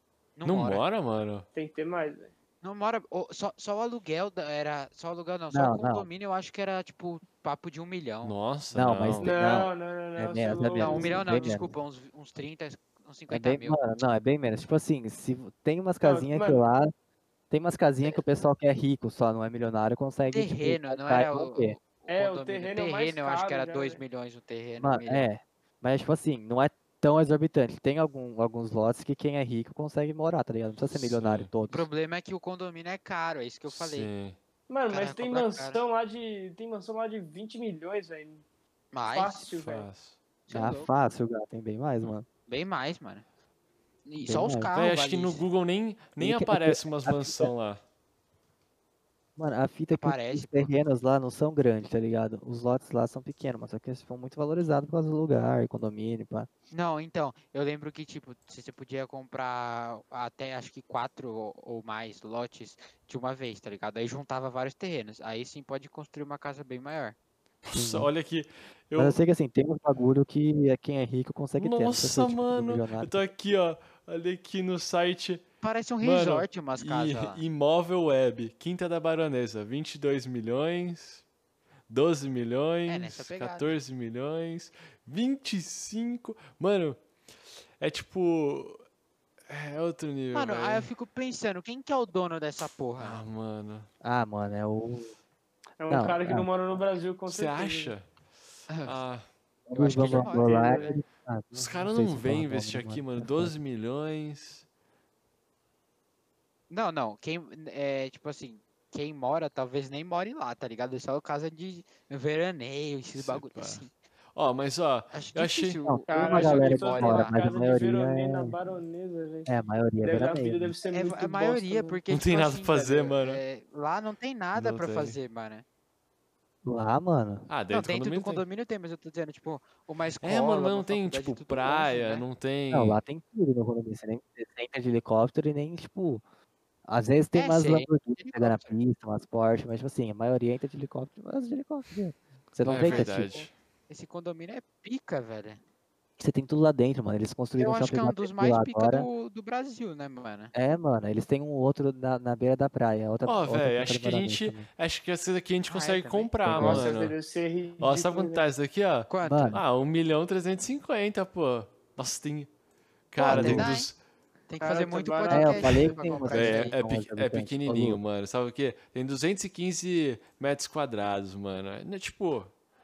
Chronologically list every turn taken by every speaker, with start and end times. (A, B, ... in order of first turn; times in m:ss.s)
0:00.4-0:00.8 A
0:00.4-0:01.5 B
0:01.5-0:02.3 C
0:02.6-0:08.3 A
0:05.5-0:06.1 D
0:08.2-0:09.4 B
0:08.7-0:11.7 D
0:09.2-0:11.2 C
0:10.7-0:13.8 A
0:13.3-0:16.9 D
0:16.0-0:16.6 C
0:17.5-0:21.8 D
0:20.3-0:25.3 A
0:22.1-0:24.0 C
0:24.8-0:31.9 D
0:30.9-0:31.5 B
0:31.7-0:34.1 A
0:33.7-0:34.4 B
0:34.7-0:38.4 C
0:34.9-0:35.8 A
0:38.9-0:39.5 A
0:39.1-0:39.9 C
0:39.5-0:40.2 B
0:40.5-0:40.9 A
0:40.5-0:42.2 D
0:42.5-0:43.2 A
0:44.1-0:45.4 A
0:44.2-0:44.7 D
0:44.7-0:47.8 B
0:46.2-0:47.5 D
0:49.4-0:56.5 D
0:49.9-0:50.7 A
0:56.7-1:07.2 A
1:07.6-1:09.2 B
1:07.7-1:08.1 D
1:09.0-1:13.2 D
1:11.6-1:15.4 B
1:15.6-1:17.4 A
1:16.0-1:21.2 B
1:21.9-1:27.0 B
1:22.9-1:23.8 A
1:27.8-1:28.8 B
1:29.5-1:30.9 B
1:30.3-1:33.2 A
1:33.0-1:33.9 B
1:34.0-1:35.1 D
1:35.8-1:37.9 C
1:35.9-1:36.5 D
1:37.3-1:38.1 B
1:38.7-1:39.0 A
1:38.8-1:39.3 B
1:39.7-1:43.5 D
1:39.8-1:40.9 A
1:40.2-1:41.0 C
1:41.5-1:44.7 B
1:46.7-1:53.9 A
1:53.2-1:55.8 B
1:55.1-1:57.4 A
1:55.8-1:58.6 D
1:56.1-1:59.5 C
1:59.5-2:00.7 D
2:00.0-2:02.0 C
2:00.9-2:05.6 A
2:02.1-2:03.4 B
2:04.5-2:05.2 B
2:06.6-2:07.5 D
2:07.5-2:08.4 B
2:07.7-2:12.3 A
2:10.2-2:13.0 B
2:12.7-2:16.2 D
2:16.9-2:23.3 D
2:17.3-2:18.8 A
2:22.6-2:23.5 B
2:22.7-2:25.6 A
2:26.2-2:29.1 D
2:27.6-2:30.5 A
2:30.5-2:34.7 D
2:33.2-2:37.2 B
2:35.7-2:36.3 A
2:36.4-2:36.9 D
2:36.5-2:38.4 C
2:37.8-2:42.5 B
2:39.1-2:39.6 A
2:39.2-2:39.6 D
2:43.1-2:44.0 B
2:43.2-2:43.9 A
2:43.3-2:43.8 D
2:44.5-2:46.8 A
2:44.6-2:46.0 C
2:45.3-2:48.0 D
2:46.3-2:52.5 B